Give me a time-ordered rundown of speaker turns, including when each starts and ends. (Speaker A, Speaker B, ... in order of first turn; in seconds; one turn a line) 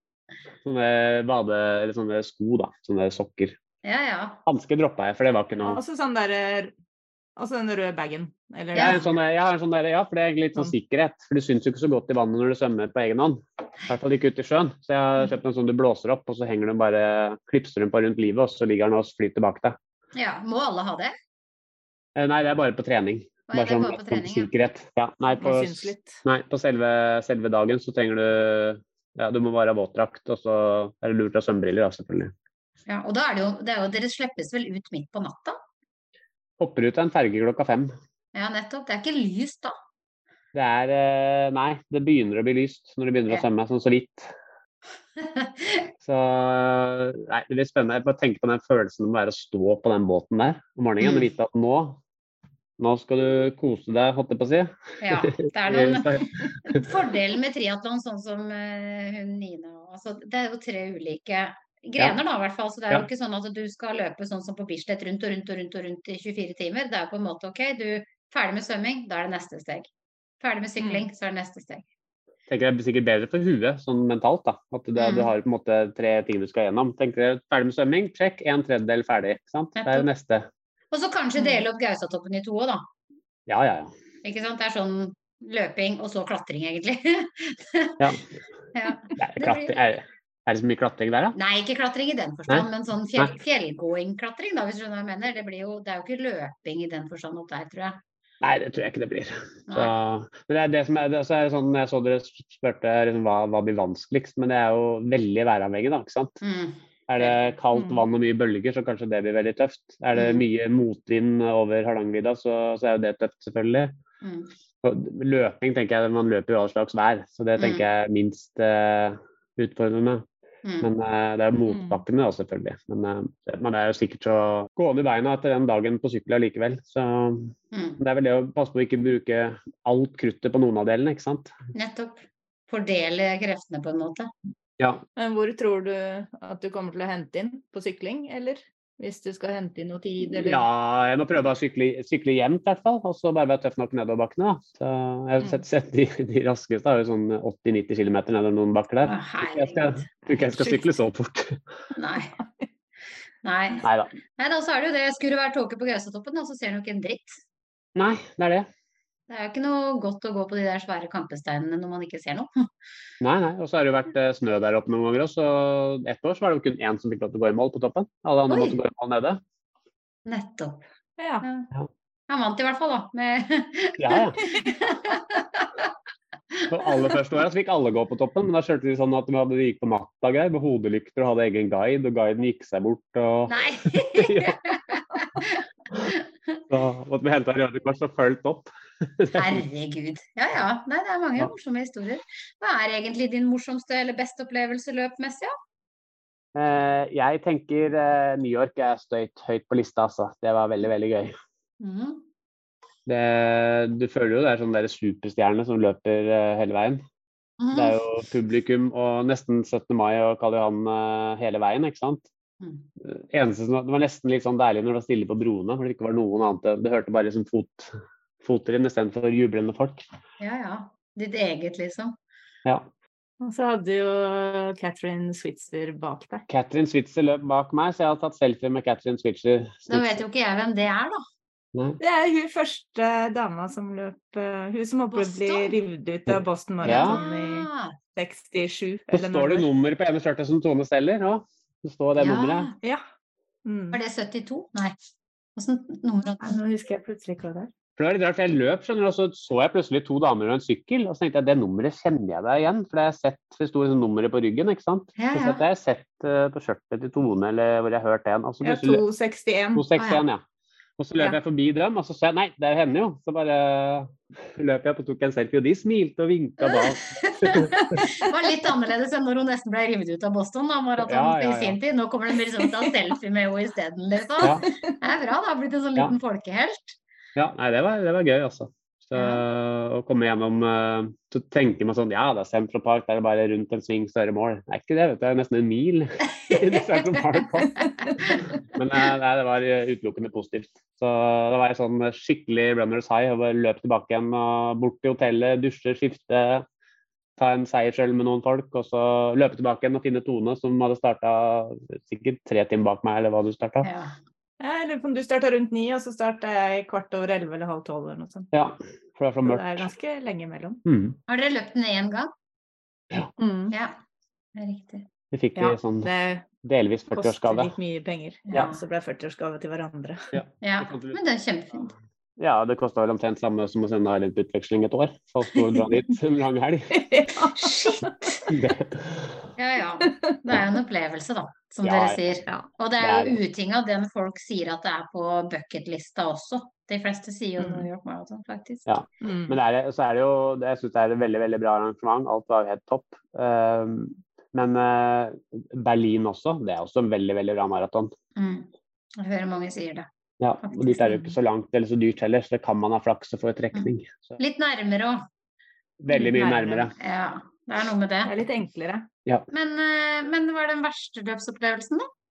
Speaker A: 0.6-3.6
Speaker B: 3.8-4.4
Speaker A: 4.5-5.8
Speaker C: 5.6-6.7
Speaker C: 7.4-9.0
Speaker B: 8.7-9.0
Speaker A: 8.8-19.8
Speaker B: 20.1-21.1
Speaker A: 22.1-32.3
Speaker B: 23.5-24.5
Speaker C: 25.4-26.2
Speaker B: 32.9-35.6
Speaker A: 36.6-37.9
Speaker B: 38.3-39.7
Speaker A: 40.5-44.3
Speaker B: 45.2-45.9
Speaker A: 46.0-52.0
Speaker B: 51.0-51.2
Speaker A: 52.8-56.9
Speaker B: 55.0-69.9
Speaker B: 70.4-71.8
Speaker C: 70.8-71.0
Speaker A: 72.5-80.5
Speaker B: 75.0-75.3
Speaker B: 79.8-80.1
Speaker B: 80.9-82.8
Speaker A: 83.5-83.9
Speaker B: 84.2-88.1
Speaker B: 88.7-89.9
Speaker A: 89.2-91.3
Speaker B: 91.3-98.0
Speaker A: 92.5-93.3
Speaker A: 98.4-106.4
Speaker B: 99.7-99.9
Speaker B: 106.4-107.5
Speaker A: 107.1-113.9
Speaker C: 107.7-108.0
Speaker B: 110.1-110.4
Speaker B: 114.2-114.5
Speaker A: 114.8-120.2
Speaker B: 117.6-117.8
Speaker B: 120.6-120.9
Speaker A: 120.8-131.5
Speaker C: 121.7-122.0
Speaker B: 127.7-128.0
Speaker B: 131.7-134.3
Speaker C: 135.2-140.7
Speaker A: 140.4-151.6
Speaker B: 149.0-150.1
Speaker C: 150.3-150.8
Speaker B: 151.9-152.3
Speaker C: 152.4-152.7
Speaker B: 153.4-157.4
Speaker A: 153.8-154.1
Speaker A: 157.9-158.7
Speaker B: 159.3-162.5
Speaker A: 163.2-169.4
Speaker B: 168.5-168.8
Speaker B: 170.2-170.8
Speaker C: 171.2-171.4
Speaker B: 171.4-171.7
Speaker B: 172.3-175.7
Speaker A: 174.0-174.4
Speaker B: 176.5-177.2
Speaker A: 176.7-184.6
Speaker B: 183.5-186.6
Speaker A: 186.7-189.6
Speaker B: 189.3-195.5
Speaker A: 196.5-201.3
Speaker B: 201.8-202.2
Speaker A: 203.1-207.0
Speaker B: 207.6-208.0
Speaker A: 207.7-212.2
Speaker B: 212.6-212.8
Speaker A: 213.0-220.0
Speaker B: 220.4-222.2
Speaker C: 223.4-226.4
Speaker A: 226.5-230.2
Speaker B: 229.9-231.2
Speaker A: 231.7-232.0
Speaker C: 232.0-239.7
Speaker B: 235.1-235.8
Speaker A: 236.3-237.2
Speaker B: 236.8-237.9
Speaker A: 239.1-242.7
Speaker B: 242.2-242.7
Speaker C: 243.6-244.0
Speaker B: 243.9-244.9
Speaker B: 245.6-246.6
Speaker C: 246.4-247.7
Speaker A: 248.0-259.0
Speaker B: 255.2-255.6
Speaker C: 258.6-259.9
Speaker A: 259.7-260.4
Speaker B: 259.9-260.2
Speaker A: 261.0-268.0
Speaker B: 266.6-277.0
Speaker A: 271.0-271.8
Speaker A: 274.4-274.6
Speaker A: 277.4-287.9
Speaker B: 279.1-279.4
Speaker B: 286.4-287.2
Speaker B: 287.8-288.5
Speaker A: 288.7-296.6
Speaker A: 297.4-303.9
Speaker B: 303.8-304.1
Speaker C: 304.6-308.5
Speaker A: 308.5-309.9
Speaker C: 309.4-310.8
Speaker A: 310.8-311.2
Speaker B: 311.3-312.3
Speaker C: 313.4-313.7
Speaker B: 313.7-314.0
Speaker B: 314.5-315.1
Speaker A: 315.3-316.1
Speaker C: 315.6-316.4
Speaker A: 316.6-317.7
Speaker C: 317.1-320.3
Speaker B: 318.5-318.8
Speaker A: 320.3-321.2
Speaker B: 320.6-321.9
Speaker A: 322.4-327.1
Speaker C: 326.9-328.1
Speaker B: 327.5-328.5
Speaker A: 328.5-329.4
Speaker B: 329.6-338.9
Speaker C: 330.0-330.3
Speaker A: 331.8-332.4
Speaker A: 333.0-333.4
Speaker C: 337.6-337.9
Speaker A: 338.9-348.1
Speaker C: 339.2-339.6
Speaker B: 348.4-350.1
Speaker A: 350.4-354.4
Speaker B: 350.6-351.2
Speaker B: 353.7-355.2
Speaker A: 356.0-356.9
Speaker C: 356.1-356.9
Speaker B: 357.0-358.3
Speaker C: 358.2-359.1
Speaker B: 359.5-362.1